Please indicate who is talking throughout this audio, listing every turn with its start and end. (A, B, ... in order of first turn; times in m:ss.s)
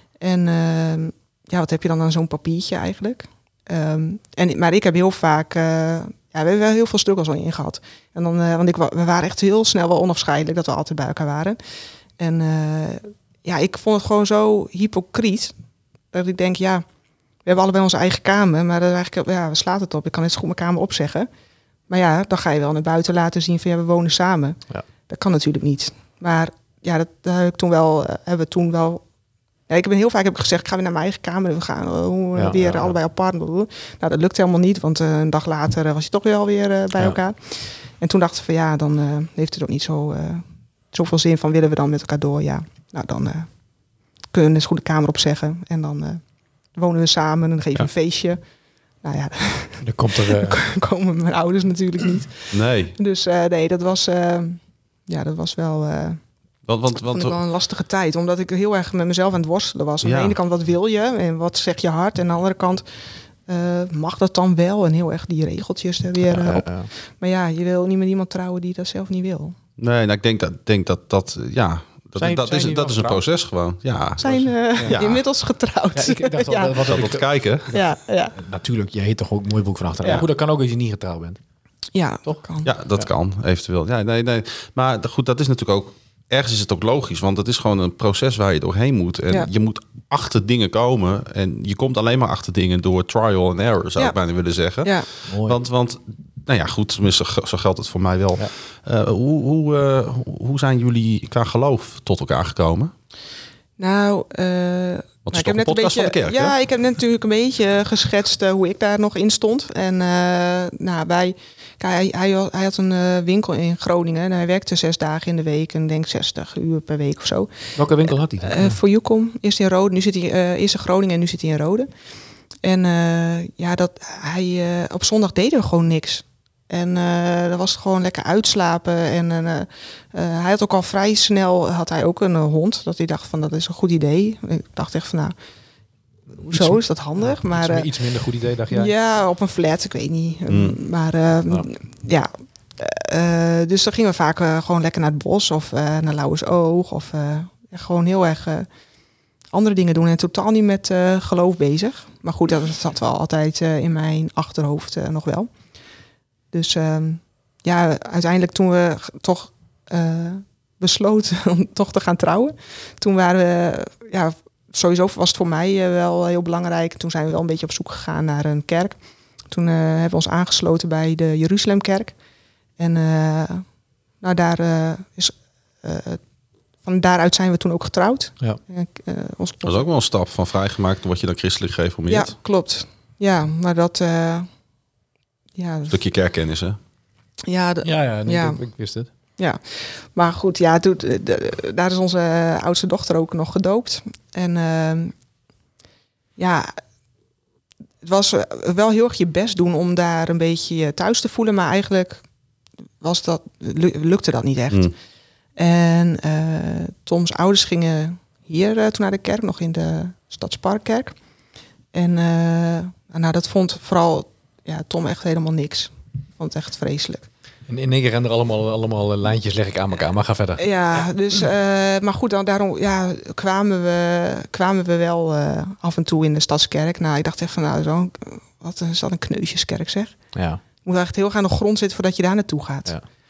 0:00.2-0:11.6 A
0:12.2-0:15.6 A
0:16.1-0:16.8 A
0:17.4-0:21.3 A
0:21.9-0:29.0 A
0:29.7-0:43.5 A
0:32.4-0:33.0 B
0:44.3-0:48.4 A
0:49.0-0:56.2 A
0:49.8-0:50.6 B
0:52.5-0:53.0 C
0:56.7-0:57.4 C
0:57.1-1:02.9 A
1:00.0-1:00.4 C
1:03.5-1:09.6 A
1:06.3-1:06.9 B
1:09.8-1:15.2 C
1:12.2-1:13.2 B
1:14.2-1:16.8 A
1:14.2-1:15.0 B
1:16.0-1:17.8 B
1:16.9-1:17.7 C
1:17.7-1:18.4 A
1:18.4-1:21.4 B
1:21.9-1:22.7 A
1:22.6-1:42.9 C
1:34.8-1:35.1 A
1:35.3-1:35.6 B
1:43.8-2:01.9 A
1:45.3-1:46.6 C
1:57.8-1:58.8 B
2:02.6-2:15.3 A
2:16.4-2:18.0 A
2:16.4-2:18.9 B
2:18.7-2:28.7 A
2:20.5-2:20.8 C
2:29.5-2:35.5 A
2:36.5-2:52.2 A
2:52.8-2:53.7 A
2:54.2-2:56.2 A
2:56.8-2:59.9 A
2:59.6-3:02.4 C
3:02.1-3:04.5 A
3:05.6-3:06.0 A
3:05.9-3:06.8 C
3:07.5-3:08.6 A
3:07.8-3:09.1 B
3:09.4-3:15.1 A
3:16.4-3:16.8 A
3:18.0-3:22.2 A
3:23.0-3:24.9 A
3:25.6-3:31.2 A
3:31.9-3:37.3 A
3:37.7-3:41.1 B
3:40.6-3:50.2 A
3:50.4-3:50.6 B
3:50.8-3:52.9 A